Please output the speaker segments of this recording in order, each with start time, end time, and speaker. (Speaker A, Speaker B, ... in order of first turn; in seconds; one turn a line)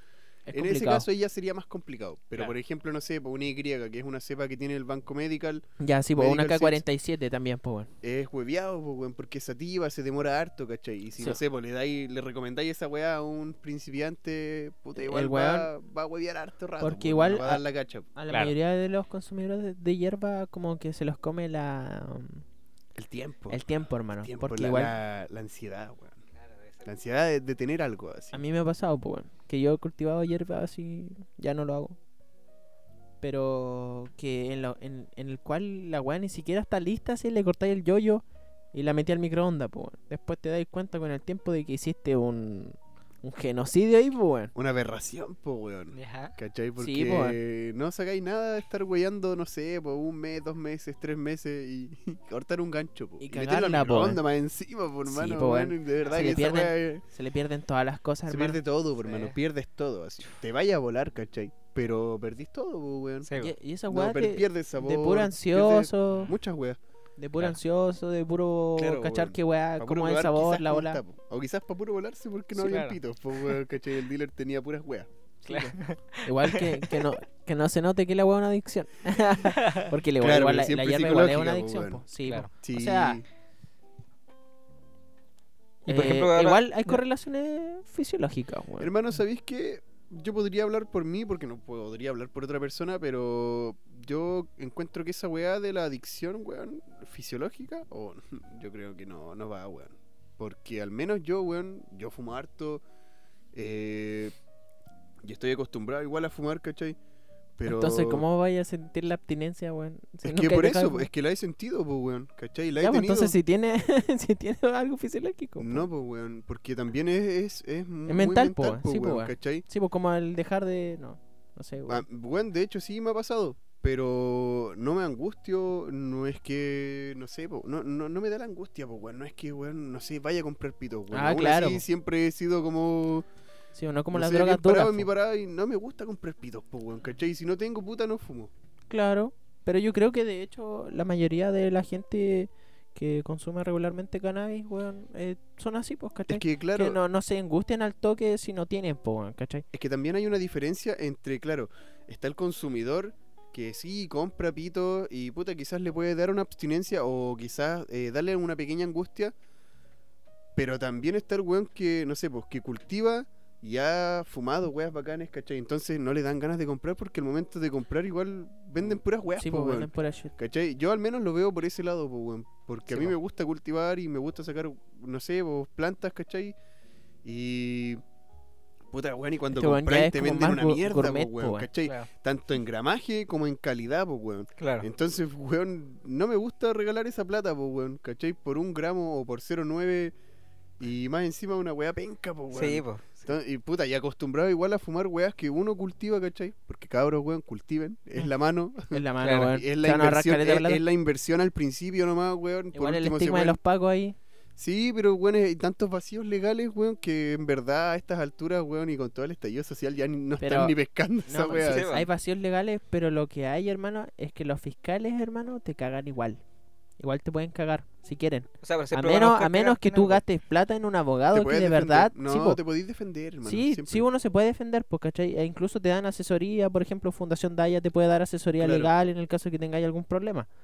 Speaker A: 0.5-1.1
Speaker B: 0.5-6.8
Speaker A: 5.8-7.9
Speaker B: 8.0-18.1
Speaker A: 15.0-15.7
Speaker A: 16.8-17.6
Speaker A: 18.1-22.4
Speaker C: 18.3-18.5
Speaker B: 23.0-23.7
Speaker A: 23.5-24.9
Speaker B: 24.2-26.2
Speaker C: 26.4-26.9
Speaker B: 26.9-28.4
Speaker A: 28.3-32.0
Speaker A: 33.2-44.5
Speaker B: 44.5-57.0
Speaker C: 45.9-46.4
Speaker A: 46.8-47.4
Speaker A: 53.2-54.2
Speaker A: 55.1-58.6
Speaker C: 56.0-56.3
Speaker B: 58.3-63.3
Speaker C: 59.0-59.4
Speaker C: 63.3-63.5
Speaker A: 63.4-66.4
Speaker B: 63.9-66.8
Speaker A: 67.2-71.0
Speaker B: 68.8-75.1
Speaker C: 72.6-73.0
Speaker A: 75.4-83.2
Speaker C: 75.5-77.0
Speaker C: 79.6-79.9
Speaker B: 80.2-82.0
Speaker B: 82.5-83.2
Speaker C: 85.9-87.0
Speaker A: 85.9-88.9
Speaker B: 88.8-102.8
Speaker B: 103.5-104.3
Speaker B: 105.2-107.0
Speaker B: 107.6-108.2
Speaker A: 107.7-111.1
Speaker B: 110.2-113.3
Speaker A: 112.8-115.9
Speaker B: 115.6-119.7
Speaker A: 118.1-122.0
Speaker B: 121.9-133.3
Speaker A: 131.1-131.8
Speaker A: 133.8-135.1
Speaker B: 134.1-138.5
Speaker A: 138.9-149.7
Speaker B: 146.3-147.0
Speaker B: 149.7-159.3
Speaker B: 160.6-176.6
Speaker A: 169.4-170.3
Speaker B: 177.2-178.0
Speaker B: 178.9-190.1
Speaker A: 179.5-181.7
Speaker C: 181.8-182.1
Speaker C: 184.6-184.9
Speaker B: 190.8-203.6
Speaker C: 192.5-193.2
Speaker A: 198.9-200.8
Speaker C: 199.2-199.5
Speaker A: 202.7-204.2
Speaker B: 204.6-211.9
Speaker A: 210.4-210.8
Speaker A: 211.3-216.4
Speaker C: 211.6-212.1
Speaker A: 217.0-222.6
Speaker C: 218.6-220.2
Speaker B: 221.3-224.1
Speaker A: 223.4-230.5
Speaker B: 228.6-228.9